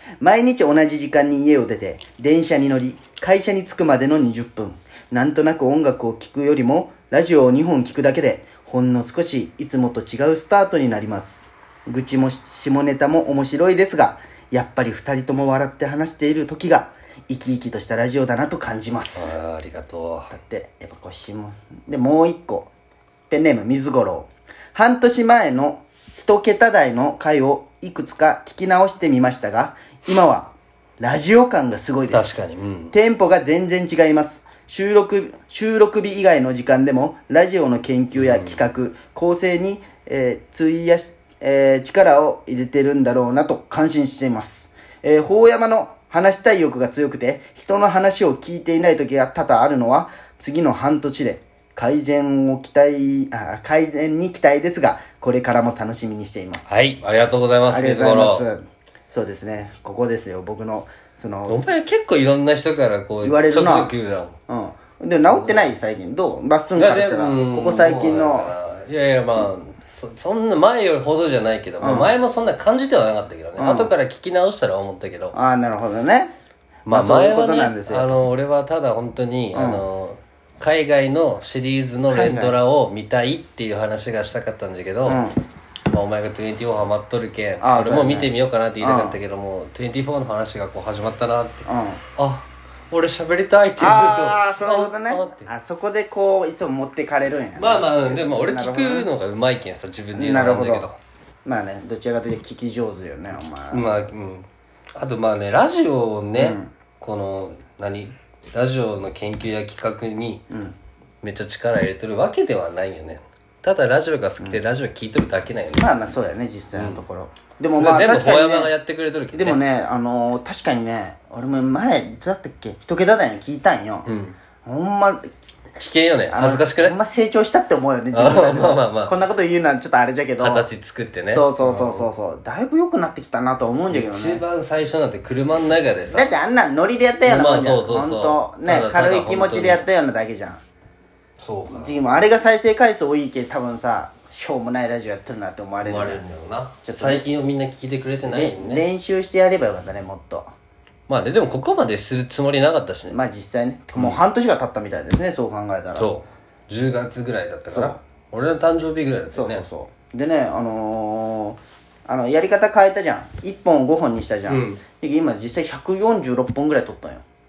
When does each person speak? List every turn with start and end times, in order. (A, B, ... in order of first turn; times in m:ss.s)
0:00.2-0:19.4 A
0:19.2-0:20.3 B
0:20.3-0:22.7 A
0:23.3-0:56.7 A
0:32.1-0:32.9 B
0:38.2-0:38.6 B
0:56.7-0:58.5 B
0:57.7-1:01.6 A
1:01.5-1:04.4 B
1:03.2-1:03.9 A
1:04.5-1:08.6 A
1:05.3-1:05.7 B
1:06.8-1:15.4 B
1:11.8-1:12.1 A
1:13.6-1:13.9 A
1:15.3-1:16.3 A
1:16.9-1:25.2 B
1:16.9-1:18.2 A
1:19.5-1:19.8 A
1:22.1-1:22.6 A
1:25.0-1:25.4 A
1:25.9-1:35.5 B
1:27.6-1:29.2 A
1:31.7-1:32.0 A
1:33.8-1:39.1 A
1:37.6-1:41.0 B
1:40.1-1:40.9 A
1:41.4-1:44.0 A
1:43.7-1:50.5 B
1:46.4-1:46.7 A
1:50.5-1:50.8 A
1:51.2-1:55.9 B
1:55.8-1:58.7 A
1:56.7-1:57.0 B
1:57.7-1:59.6 B
1:59.3-2:04.1 A
2:04.1-2:04.4 B
2:04.6-2:05.3 A
2:05.8-2:07.0 B
2:06.3-2:10.7 A
2:08.1-2:09.2 B
2:10.4-2:12.1 B
2:11.3-2:14.4 A
2:13.9-2:16.3 B
2:16.1-2:20.6 A
2:17.2-2:19.9 B
2:21.4-2:22.0 B
2:21.7-2:26.2 A
2:25.8-2:28.8 B
2:26.8-2:27.3 A
2:28.3-2:30.5 A
2:31.1-2:33.2 B
2:33.1-2:36.1 A
2:33.9-2:34.2 B
2:36.0-2:39.6 B
2:37.7-2:38.0 A
2:39.3-2:47.2 A
2:44.5-2:44.8 B